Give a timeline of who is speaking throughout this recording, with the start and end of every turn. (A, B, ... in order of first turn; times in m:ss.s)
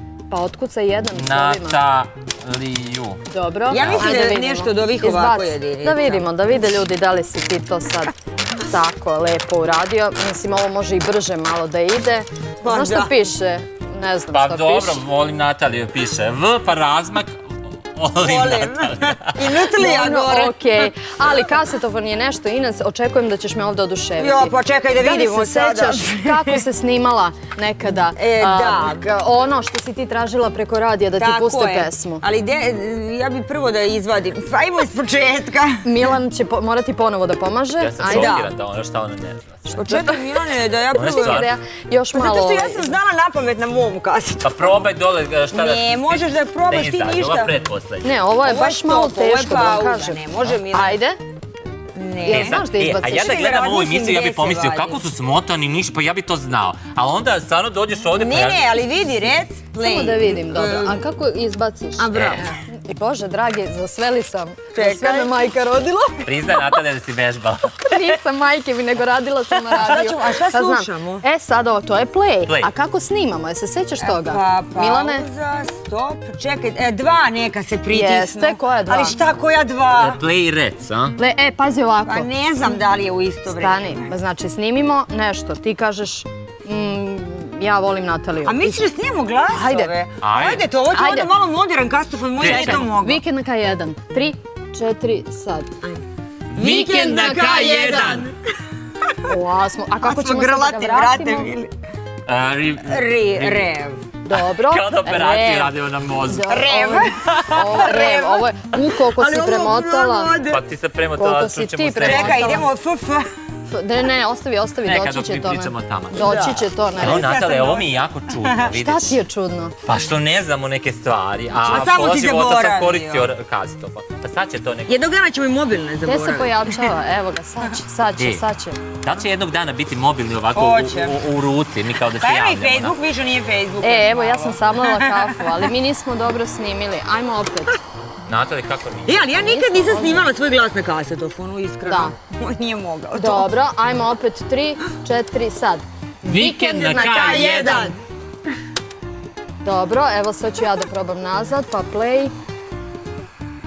0:00.3-0:01.8 A
0:01.1-0:03.2 B
0:03.3-0:15.0 A
0:03.7-0:06.4 C
0:03.8-0:04.1 B
0:12.6-0:13.2 C
0:14.3-0:19.6 B
0:18.2-0:20.6 C
0:19.8-0:32.2 A
0:24.2-0:26.6 C
0:28.1-0:29.1 C
0:31.2-0:35.8 C
0:35.8-0:38.4 A
0:37.8-0:39.8 B
0:38.0-0:38.5 C
0:39.7-0:40.1 A
0:39.8-0:41.5 C
0:40.9-0:41.5 B
0:41.0-0:43.0 A
0:42.1-0:44.6 C
0:44.4-0:48.1 B
0:45.5-0:47.5 C
0:48.0-0:51.2 A
0:48.4-0:51.0 C
0:51.9-0:55.0 C
0:52.2-0:53.3 A
0:52.3-0:58.7 B
0:58.1-1:01.0 C
0:59.8-1:06.5 A
1:02.0-1:02.6 C
1:02.1-1:02.4 B
1:04.7-1:05.4 C
1:06.2-1:08.1 B
1:07.9-1:15.2 A
1:09.7-1:11.2 C
1:14.0-1:20.2 C
1:17.9-1:19.2 A
1:20.0-1:21.2 B
1:21.2-1:22.3 A
1:22.1-1:24.1 C
1:23.5-1:28.9 A
1:28.4-1:33.2 C
1:29.5-1:29.9 A
1:30.2-1:30.7 B
1:30.9-1:31.3 A
1:32.4-1:32.8 B
1:32.4-1:35.7 A
1:36.5-1:38.3 B
1:36.6-1:38.4 C
1:36.9-1:38.2 A
1:39.2-1:41.5 A
1:40.0-1:41.7 C
1:42.2-1:43.7 B
1:42.8-1:44.0 C
1:44.2-1:50.4 A
1:44.3-1:46.5 B
1:46.5-1:50.6 C
1:47.1-1:47.7 B
1:50.5-1:52.6 B
1:51.2-1:52.7 A
1:52.0-1:53.3 C
1:53.7-1:57.3 A
1:54.8-1:59.2 B
1:56.1-1:58.8 C
1:58.8-1:59.8 A
1:59.8-2:05.0 B
2:01.6-2:03.3 C
2:04.9-2:06.9 C
2:06.0-2:08.8 A
2:08.2-2:08.4 B
2:09.0-2:12.9 B
2:10.6-2:11.2 C
2:12.2-2:15.6 C
2:13.8-2:17.8 A
2:18.3-2:19.2 B
2:19.1-2:23.5 C
2:19.3-2:20.3 A
2:21.8-2:22.1 A
2:23.1-2:27.9 A
2:26.2-2:27.9 B
2:26.8-2:28.0 C
2:29.6-2:32.3 A